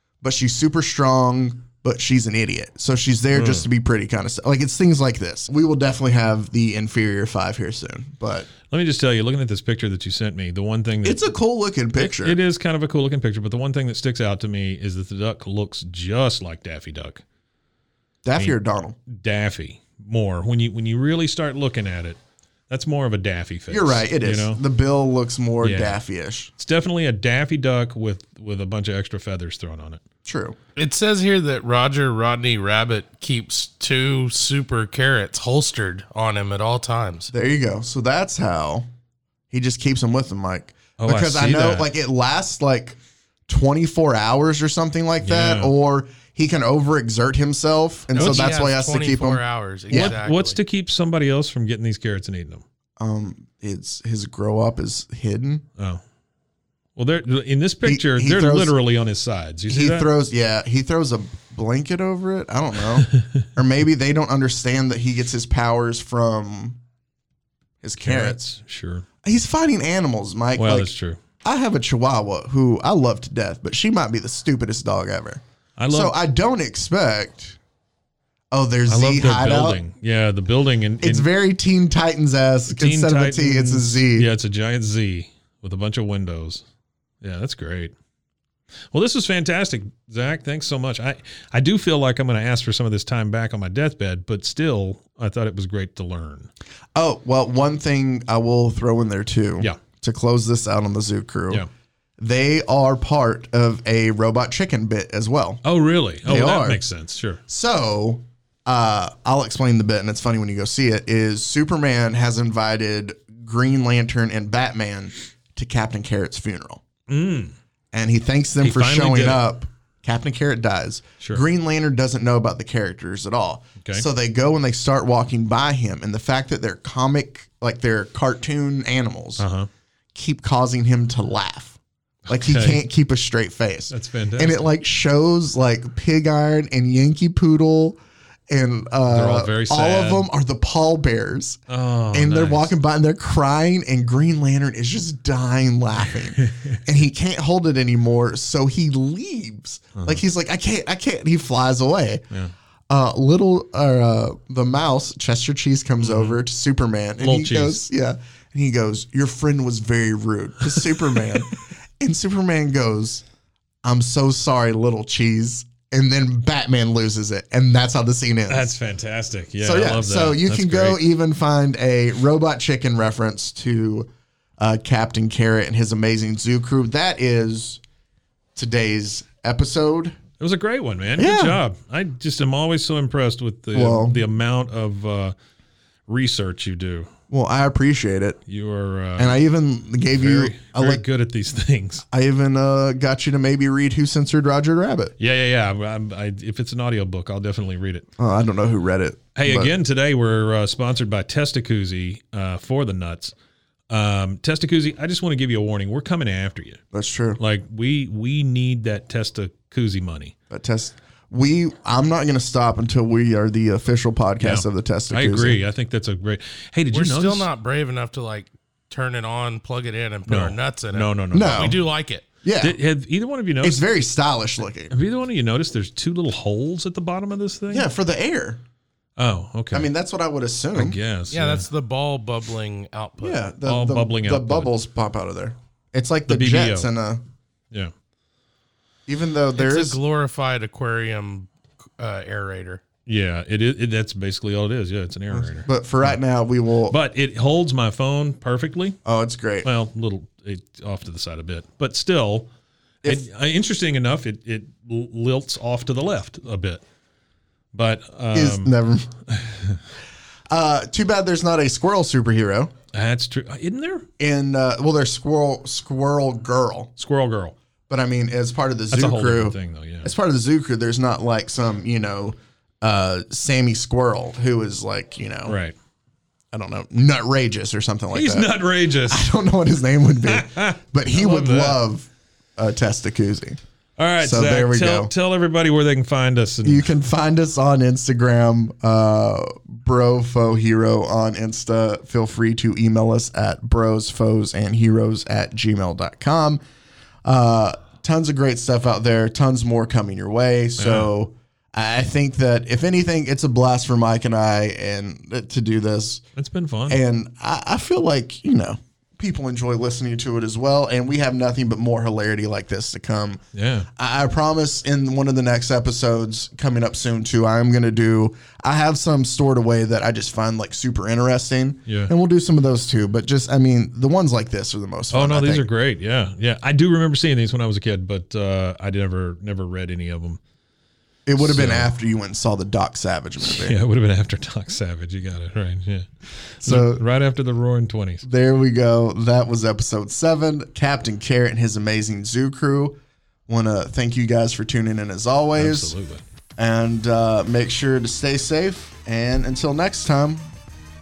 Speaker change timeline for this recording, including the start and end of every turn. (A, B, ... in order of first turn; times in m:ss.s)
0:00.2-0:08.5 A
0:03.3-0:03.6 B
0:08.7-0:11.3 B
0:11.0-0:12.4 A
0:12.0-0:17.2 B
0:18.2-0:19.0 A
0:19.1-0:22.2 B
0:22.7-0:24.6 B
0:23.7-0:26.5 A
0:25.6-0:26.0 B
0:26.6-0:30.0 B
0:30.2-0:30.6 A
0:30.8-0:37.3 C
0:37.3-0:38.8 A
0:39.5-0:50.2 A
0:41.0-0:41.8 B
0:45.2-0:45.7 B
0:48.1-0:50.6 C
0:48.2-0:48.5 B
0:49.9-0:52.6 B
0:53.0-0:55.6 A
0:57.0-1:00.1 B
0:57.8-0:58.7 A
0:59.7-1:06.8 A
1:07.8-1:08.4 A
1:08.0-1:09.0 B
1:09.2-1:10.9 A
1:10.6-1:11.2 B
1:11.4-1:17.6 A
1:15.8-1:16.1 B
1:18.5-1:19.8 A
1:18.9-1:21.3 B
1:21.0-1:24.3 A
1:22.7-1:26.6 B
1:27.2-1:27.9 B
1:28.9-1:36.5 B
1:36.9-1:41.6 A
1:42.2-1:45.6 A
1:45.6-1:47.4 B
1:46.2-1:46.8 A
1:47.5-1:56.8 A
1:57.1-1:57.5 B
1:57.9-2:09.4 A
1:58.6-1:59.4 B
2:09.4-2:09.7 B
2:10.1-2:21.6 A
2:12.3-2:12.8 B
2:13.9-2:14.6 B
2:19.1-2:20.3 B
2:21.7-2:22.7 B
2:22.1-2:32.2 A
2:29.9-2:30.2 B
2:32.9-2:43.2 A
2:36.0-2:36.4 B
2:37.2-2:37.8 B
2:43.8-2:48.7 A
2:48.5-2:51.0 B
2:49.6-2:57.8 A
2:58.6-3:00.2 A
3:00.4-3:05.3 B
3:01.2-3:01.6 A
3:03.7-3:04.2 A
3:06.1-3:07.1 B
3:07.3-3:08.4 A
3:08.5-3:09.4 B
3:09.2-3:11.0 A
3:10.1-3:12.0 B
3:12.1-3:15.1 A
3:15.2-3:18.0 B
3:18.2-3:19.7 A
3:19.4-3:23.3 B
3:23.9-3:26.8 B
3:26.9-3:27.4 A
3:27.4-3:30.3 B
3:30.5-3:35.6 A
3:34.4-3:37.5 B
3:36.9-3:42.3 C
3:40.3-3:41.8 B
3:41.3-3:41.8 A
3:42.4-3:42.8 A
3:42.6-3:43.8 B
3:43.6-3:44.9 A
3:44.9-3:47.9 B
3:47.7-3:48.6 A
3:49.2-3:49.9 B
3:49.7-3:51.0 A
3:50.7-3:51.7 B
3:51.3-3:53.4 C
3:53.2-3:57.2 A
3:53.6-3:54.7 B
3:56.3-3:56.9 B
3:59.1-4:00.0 A
3:59.6-4:02.8 C
4:03.0-4:06.2 B
4:05.3-4:07.0 A
4:06.9-4:09.0 B
4:09.0-4:09.7 A
4:09.6-4:12.5 B
4:13.0-4:16.8 B
4:17.7-4:18.7 B
4:18.3-4:19.1 A
4:19.3-4:19.8 B
4:20.5-4:22.7 A
4:22.9-4:24.0 B
4:24.2-4:26.9 A
4:27.0-4:27.5 B
4:27.9-4:35.6 A
4:28.9-4:30.1 B
4:35.4-4:35.7 B
4:36.5-4:43.6 A
4:38.1-4:39.3 B
4:40.2-4:41.8 B
4:44.0-4:46.9 B
4:44.2-4:45.1 A
4:46.6-4:56.6 A
4:57.2-5:06.2 A
5:00.8-5:01.1 B
5:06.4-5:07.0 B
5:06.9-5:13.4 A
5:13.5-5:13.9 B
5:14.0-5:25.7 A
5:21.8-5:22.1 B
5:25.1-5:30.4 B
5:31.2-5:33.8 A
5:31.4-5:31.9 B
5:33.4-5:36.1 B
5:36.6-5:38.2 B
5:36.6-5:37.0 A
5:38.2-5:45.9 A
5:45.6-5:46.2 B
5:46.6-5:50.5 A